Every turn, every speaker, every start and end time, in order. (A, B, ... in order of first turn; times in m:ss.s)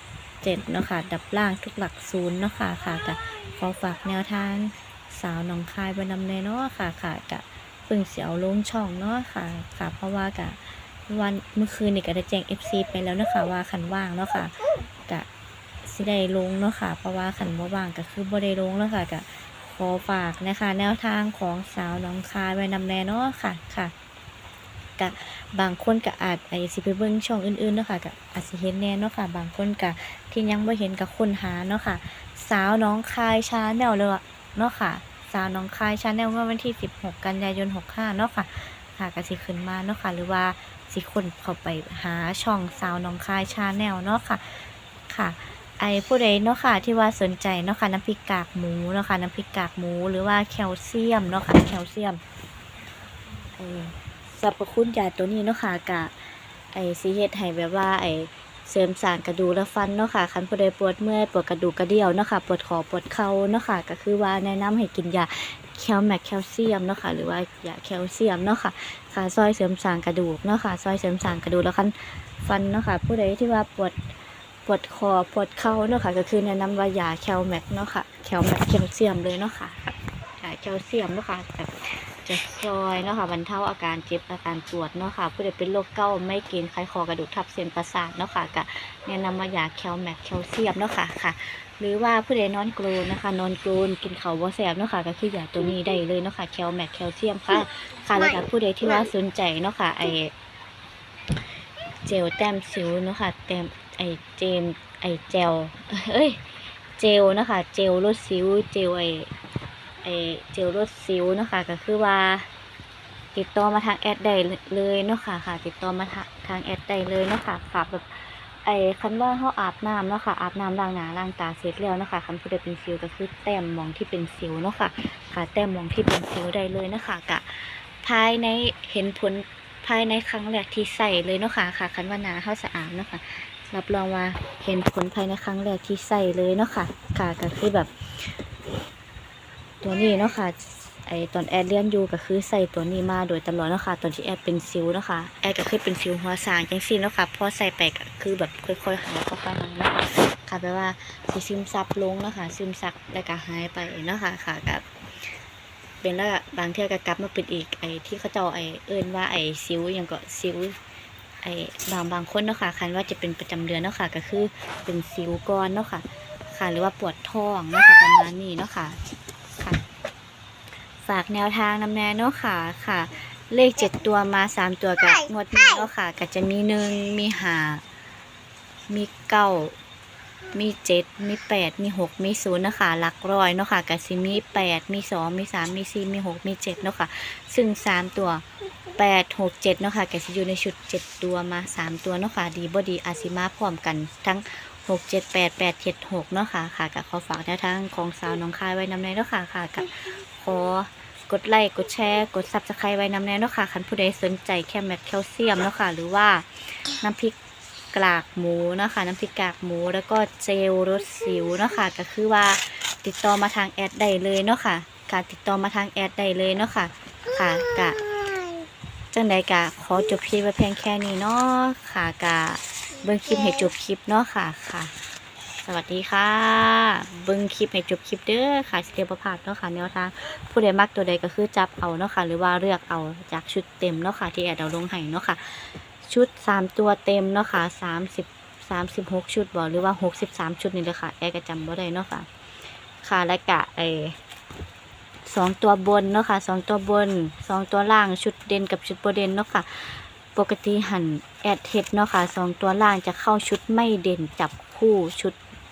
0:00.4-0:15.3 A
0:15.8-0:23.9 A
0:25.0-0:52.2 A
0:53.5-1:14.1 A
1:14.6-1:40.3 A
1:42.0-1:49.3 A
1:50.0-1:52.5 A
1:53.3-2:18.4 A
2:19.8-2:34.8 A
2:36.0-2:40.8 A
2:41.4-2:49.0 A
2:49.6-2:49.8 A
2:51.0-2:57.8 A
2:58.9-2:59.8 A
3:00.5-3:08.4 A
3:08.9-3:27.4 A
3:27.9-3:38.2 A
3:39.1-3:44.9 A
3:45.6-4:02.3 A
4:03.0-4:04.2 A
4:05.2-4:15.4 A